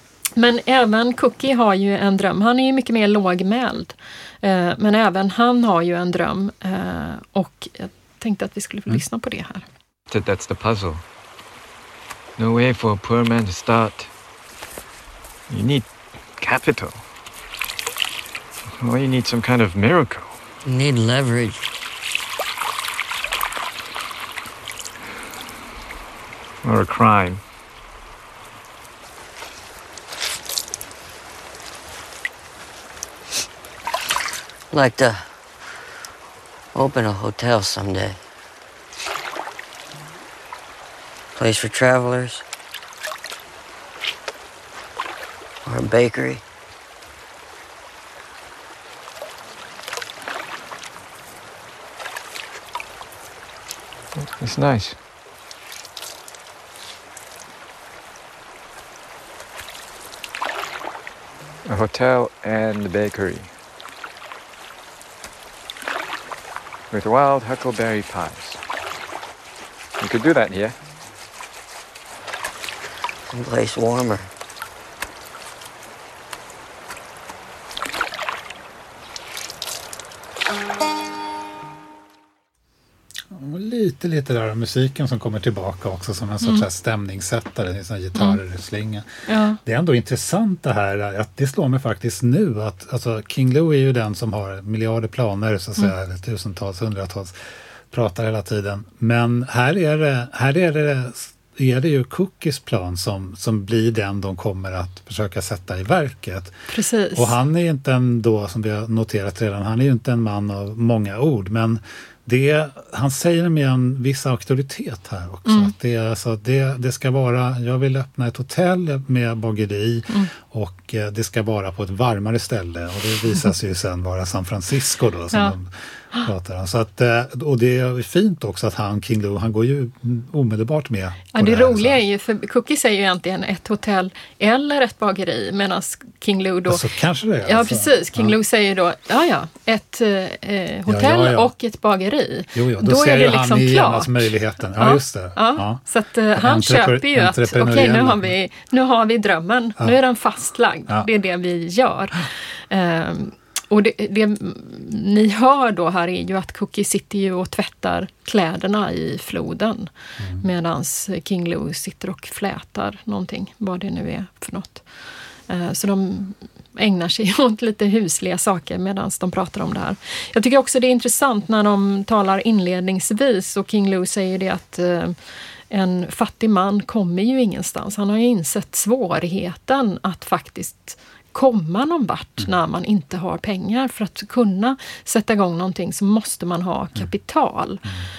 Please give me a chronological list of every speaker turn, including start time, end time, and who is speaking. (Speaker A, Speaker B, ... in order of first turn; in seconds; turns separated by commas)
Speaker A: 0.3-9.6, Speaker B: 10.1-11.0, Speaker B: 12.4-14.1, Speaker B: 15.5-17.0, Speaker B: 18.8-20.4, Speaker C: 20.6-21.6, Speaker B: 26.6-27.4, Speaker C: 34.7-35.3, Speaker C: 36.7-38.2, Speaker C: 41.4-42.4, Speaker C: 45.6-46.4, Speaker B: 54.2-55.0, Speaker B: 61.6-63.5, Speaker B: 66.9-68.6, Speaker B: 70.0-70.8, Speaker C: 73.3-74.3, Speaker D: 83.3-89.1, Speaker A: 89.3-89.6, Speaker D: 89.6-97.3, Speaker D: 97.9-106.5, Speaker A: 106.7-107.3, Speaker D: 107.1-132.0, Speaker A: 115.5-115.7, Speaker A: 131.3-136.8, Speaker D: 136.7-138.3, Speaker A: 137.4-164.8, Speaker D: 140.9-141.5, Speaker D: 142.5-145.8, Speaker D: 146.3-148.3, Speaker D: 160.2-160.4, Speaker A: 165.5-175.2, Speaker A: 175.7-187.8